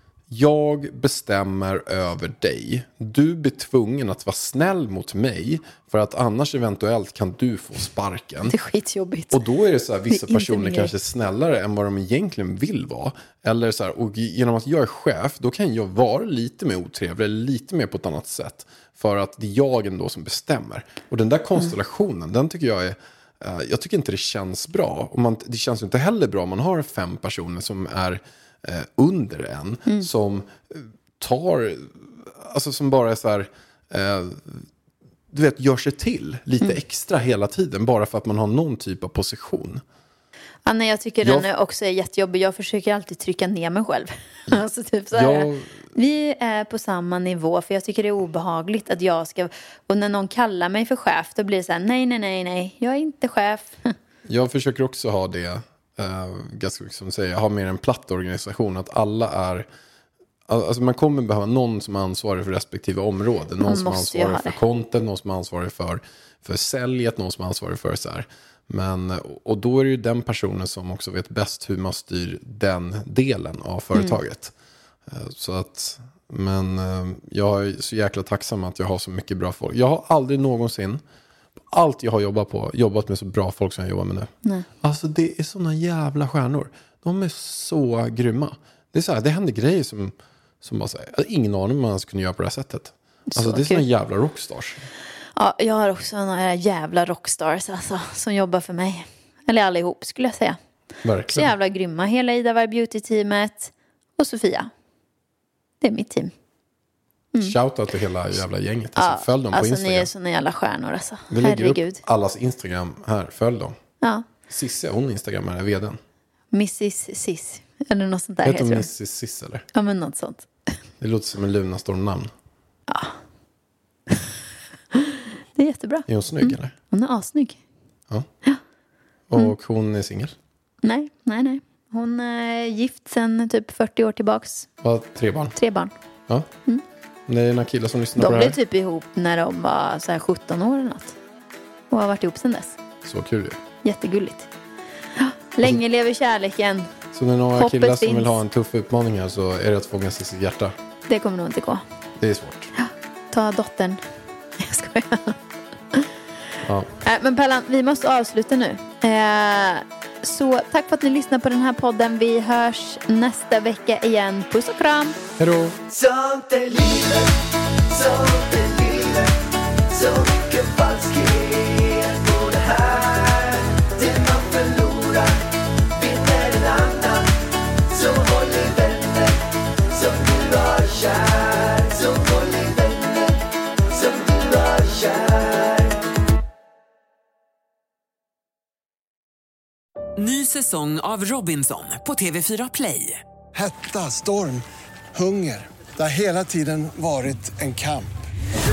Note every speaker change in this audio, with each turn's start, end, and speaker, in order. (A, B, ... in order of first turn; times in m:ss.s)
0:00.3-0:08.5 A
0:08.5-0:09.4 B
0:09.3-0:34.7 A
0:10.1-0:10.9 B
0:35.3-0:39.8 A
0:40.7-0:53.9 B
0:41.2-0:41.5 A
0:45.1-0:45.7 A
0:54.3-0:59.7 A
1:00.5-1:14.5 A
1:03.6-1:04.6 B
1:15.1-1:21.0 A
1:21.7-1:34.8 A
1:33.3-1:33.8 B
1:35.4-1:40.6 B
1:41.0-1:41.5 A
1:41.3-1:44.7 B
1:45.8-1:46.3 B
1:47.4-1:50.1 A
1:49.0-1:52.0 B
1:51.3-1:53.8 A
1:54.5-1:56.0 A
1:56.5-1:58.9 B
1:58.4-1:59.6 A
1:59.8-2:00.5 B
2:01.0-2:02.3 A
2:02.9-2:03.2 B
2:05.6-2:07.6 B
2:06.1-2:06.7 A
2:09.3-2:10.4 A
2:10.8-2:14.7 B
2:14.8-2:15.6 A
2:15.6-2:15.9 B
2:17.3-2:18.6 A
2:18.2-2:21.2 B
2:21.9-2:22.8 B
2:23.0-2:23.6 A
2:23.8-2:24.5 B
2:25.2-2:26.9 B
2:27.1-2:30.8 A
2:27.6-2:28.4 B
2:31.1-2:31.8 B
2:32.2-2:32.7 A
2:32.8-2:34.0 B
2:34.6-2:35.4 B
2:36.6-2:36.9 A
2:37.0-2:45.2 B
2:45.4-2:45.8 A
2:45.9-2:47.4 C
2:47.9-2:57.3 C
2:57.9-3:06.0 C
3:10.2-3:13.2 D
3:13.5-3:18.3 E